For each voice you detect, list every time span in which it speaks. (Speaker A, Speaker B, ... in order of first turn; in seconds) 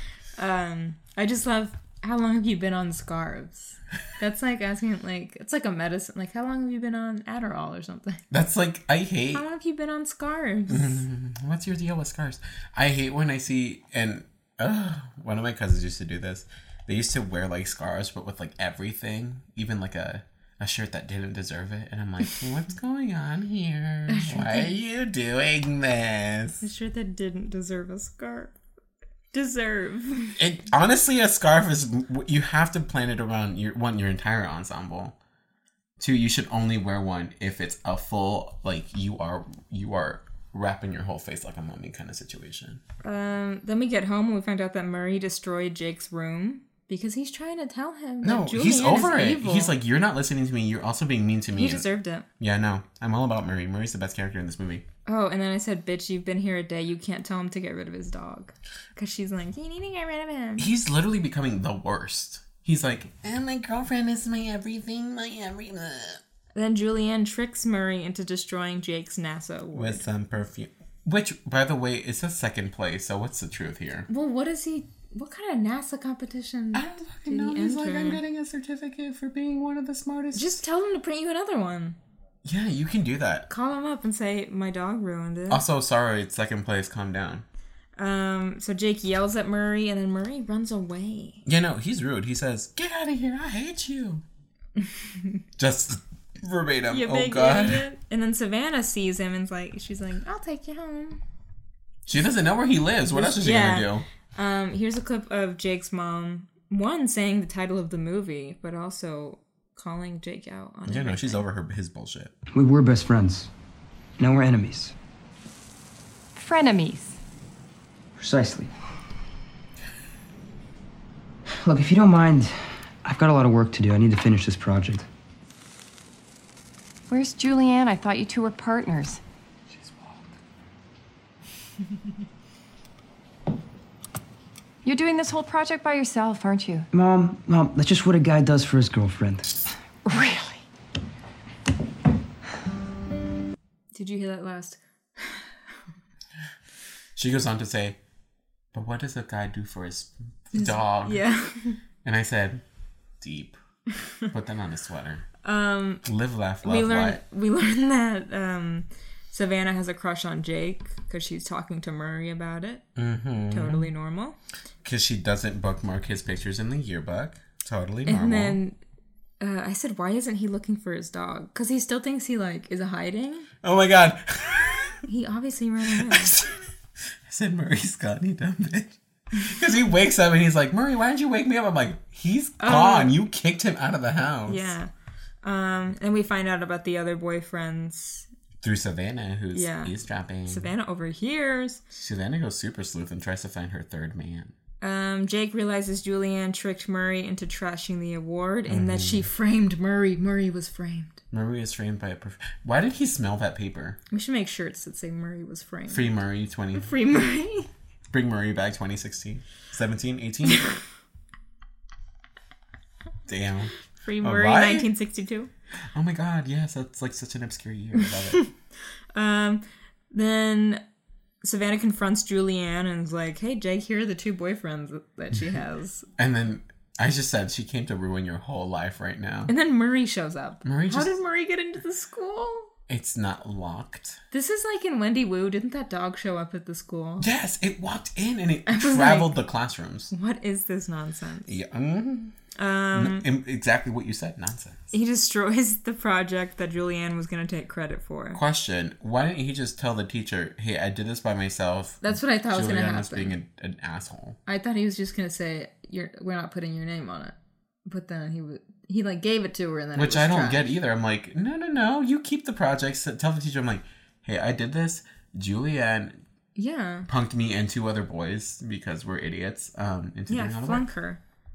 Speaker A: 0.4-8.2, 9.3-11.1, 24.1-24.7, 26.6-28.5, 29.3-30.4, 43.0-49.7, 51.5-52.2, 55.0-60.7, 66.5-70.0, 74.1-78.2, 80.3-82.0, 83.5-85.6, 88.0-91.4, 96.9-101.2, 103.1-111.4, 143.9-145.6, 150.5-151.8, 155.4-156.0, 156.6-162.8, 163.5-164.4, 168.1-168.8, 169.4-173.5, 175.1-176.4, 182.6-183.2, 184.5-184.9, 185.4-188.3, 189.5-189.9, 190.4-191.8, 194.8-201.2, 204.1-206.1, 206.7-207.7, 214.0-215.5, 219.1-220.8, 221.4-226.1, 229.5-232.7, 234.3-237.3, 238.7-239.3, 240.1-241.6, 242.6-243.2, 244.9-248.4, 252.0-253.3, 254.4-257.3, 257.9-260.6, 266.6-267.1, 270.3-271.2
Speaker B: 8.3-9.4, 10.7-26.6, 30.4-35.1, 36.0-42.8, 48.2-51.9, 52.4-54.8, 60.6-66.2, 69.7-74.1, 76.7-80.6, 82.4-83.5, 85.5-87.4, 91.5-94.2, 95.6-97.8, 102.0-104.0, 110.9-112.3, 147.2-148.0, 148.7-151.2, 152.0-152.6, 153.2-153.6, 154.3-155.2, 156.0-157.2, 162.9-163.9, 164.8-168.6, 173.6-175.0, 176.0-176.6, 177.2-184.7, 188.6-190.7, 191.9-194.5, 198.7-199.3, 201.3-204.0, 205.9-206.9, 208.1-210.8, 213.3-214.9, 215.9-218.4, 226.2-229.5, 230.6-231.1, 232.9-234.2, 237.2-240.1, 241.4-242.4, 242.9-244.8, 248.3-254.4, 259.9-266.2, 267.1-270.9
Speaker C: 112.5-113.5, 114.2-114.9, 118.2-118.7, 121.6-125.0, 136.9-139.6
Speaker D: 116.3-117.2, 127.1-129.2, 134.8-136.9, 140.1-140.6